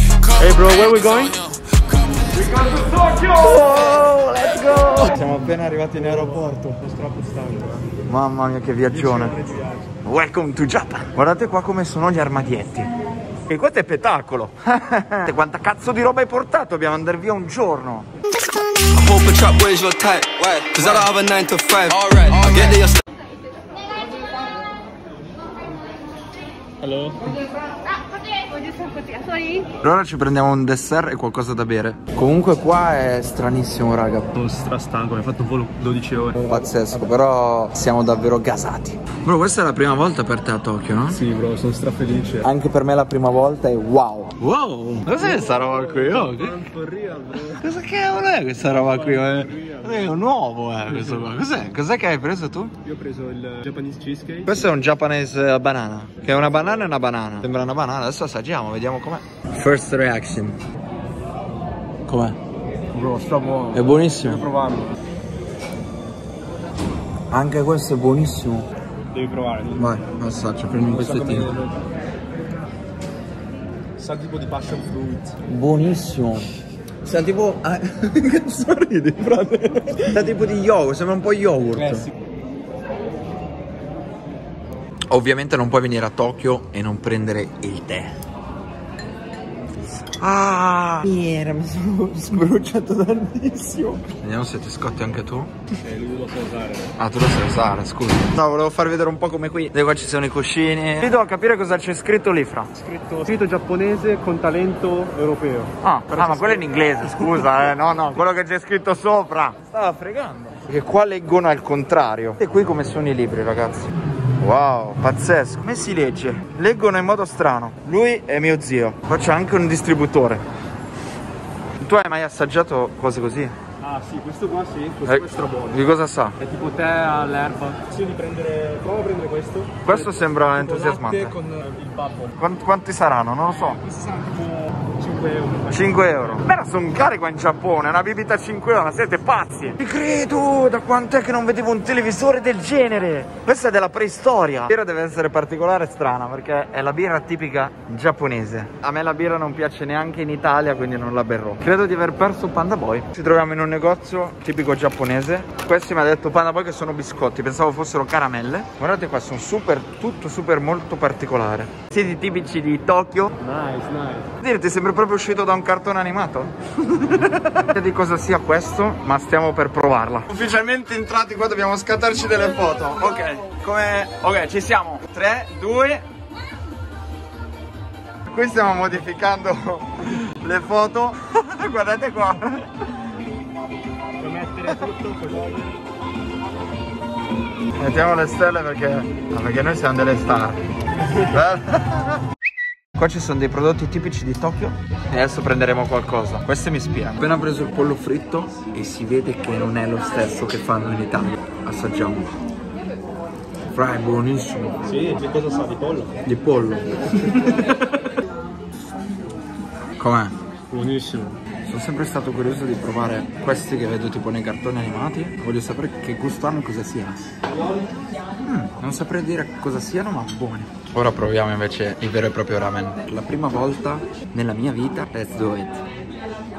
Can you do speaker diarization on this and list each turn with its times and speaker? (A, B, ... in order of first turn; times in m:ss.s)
0:00.3-0:01.4 A
0:02.3-0:06.8 B
0:05.9-0:07.9 A
0:08.1-0:09.4 B
0:08.9-0:09.8 A
0:10.0-0:12.9 B
0:13.5-0:18.1 B
0:18.8-0:23.0 C
0:26.8-0:27.3 A
0:29.8-0:34.3 B
0:34.3-0:36.7 A
0:36.5-0:41.2 B
0:41.1-0:42.5 A
0:42.4-0:46.6 B
0:45.1-0:47.7 A
0:47.5-0:52.7 B
0:48.7-0:50.2 A
0:50.9-0:51.3 A
0:52.8-0:54.6 A
0:54.4-1:00.6 B
1:02.1-1:02.4 B
1:02.9-1:05.0 A
1:03.7-1:04.4 B
1:07.3-1:08.7 B
1:09.1-1:10.0 A
1:09.8-1:11.5 B
1:10.8-1:11.8 A
1:14.0-1:15.3 A
1:15.4-1:16.5 B
1:17.0-1:22.1 B
1:19.3-1:20.2 A
1:21.8-1:22.1 A
1:25.1-1:28.2 B
1:30.0-1:35.5 B
1:35.8-1:36.9 A
1:37.0-1:42.7 B
1:42.8-1:47.0 A
1:45.8-2:00.4 B
2:01.8-2:03.6 B
2:03.8-2:05.8 A
2:05.0-2:06.4 B
2:06.4-2:12.4 A
2:09.8-2:11.4 B
2:12.4-2:13.8 B
2:13.6-2:16.4 A
2:15.7-2:43.3 B
2:43.4-2:44.3 A
2:44.4-2:56.0 B
2:58.2-3:02.7 B
3:04.2-3:05.7 A
3:07.8-3:10.6 B
3:11.1-3:12.2 B
3:13.0-3:22.3 B
3:23.7-3:24.8 B
3:24.8-3:26.2 A
3:26.2-3:27.8 B
3:30.0-3:30.3 B
3:30.7-3:31.4 A
3:31.6-3:37.3 B
3:38.4-3:45.8 B